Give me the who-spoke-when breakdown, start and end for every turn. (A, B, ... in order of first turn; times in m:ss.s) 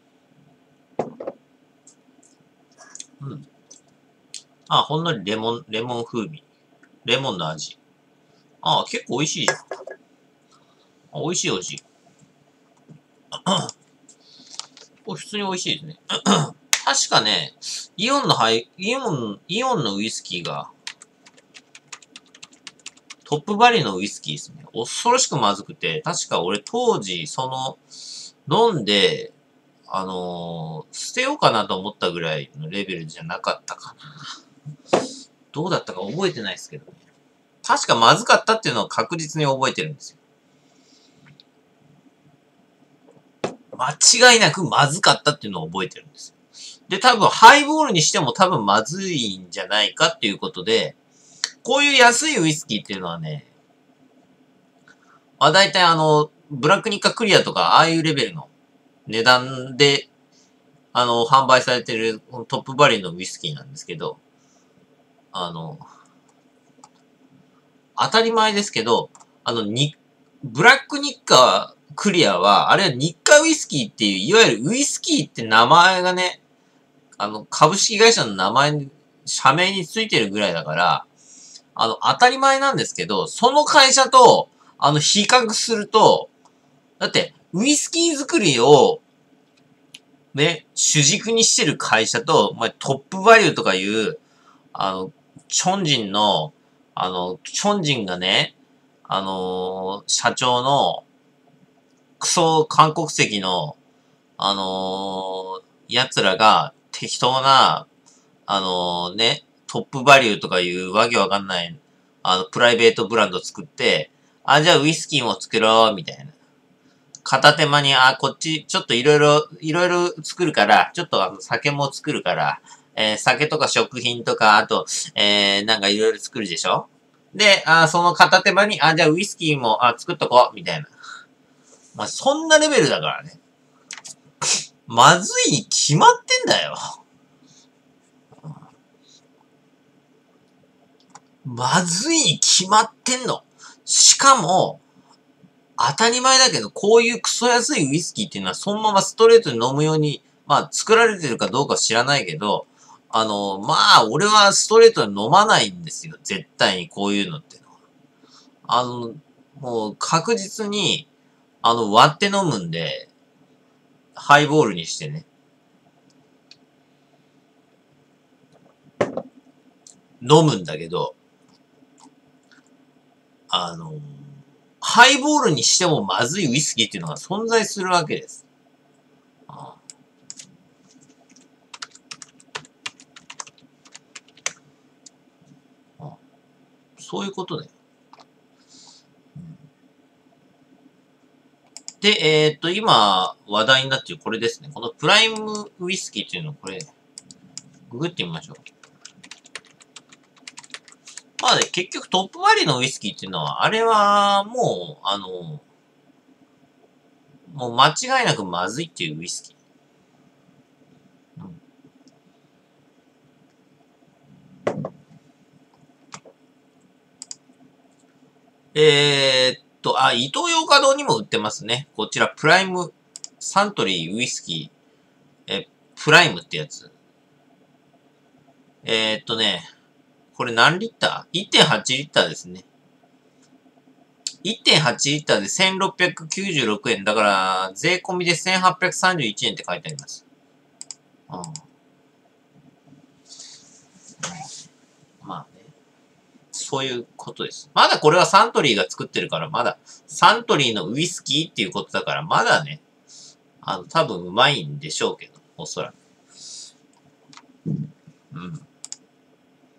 0:03.2-0:03.4 A
0:04.7-0:06.4 A
0:07.0-0:07.8 A
0:08.6-0:09.6 A
0:11.1-0:11.8 A
0:13.3-0:13.7 A
0:15.0-0:20.7 A
0:23.2-0:27.8 A
0:28.4-0:29.3 A
0:29.9-0:34.3 A
0:35.5-0:36.9 A
0:37.6-0:40.2 A
0:43.7-0:46.3 A
0:46.9-0:51.0 A
0:51.6-0:53.5 A
0:55.4-0:58.5 A
0:59.1-1:00.1 A
1:00.9-1:04.2 A
1:05.3-1:05.8 A
1:08.0-1:16.4 A
1:17.2-1:21.1 A
1:21.8-1:26.3 A
1:27.0-1:29.0 A
1:30.3-1:34.2 A
1:34.7-1:38.5 A
1:39.1-1:41.0 A
1:42.2-1:43.8 A
1:44.4-1:47.8 A
1:48.5-1:56.3 A
1:57.2-2:10.9 A
2:12.0-2:13.4 A
2:14.9-2:17.0 A
2:21.4-2:24.8 A
2:25.8-2:37.6 A
2:38.7-2:41.1 A
2:41.6-2:43.1 A
2:44.2-2:45.3 A
2:50.2-2:51.2 A
2:53.5-2:58.4 A
2:59.5-2:59.8 A
3:07.0-3:07.7 A
3:12.0-3:16.9 A
3:17.9-3:18.6 A
3:21.4-3:25.6 A
3:27.5-3:29.5 A
3:38.7-3:44.7 A
3:45.5-3:46.9 A
3:48.8-3:49.7 A
3:50.3-3:52.6 A
3:54.4-4:00.2 A
4:01.3-4:01.6 A
4:05.2-4:05.7 A
4:06.5-4:12.8 A
4:13.6-4:16.0 A
4:18.3-4:18.6 A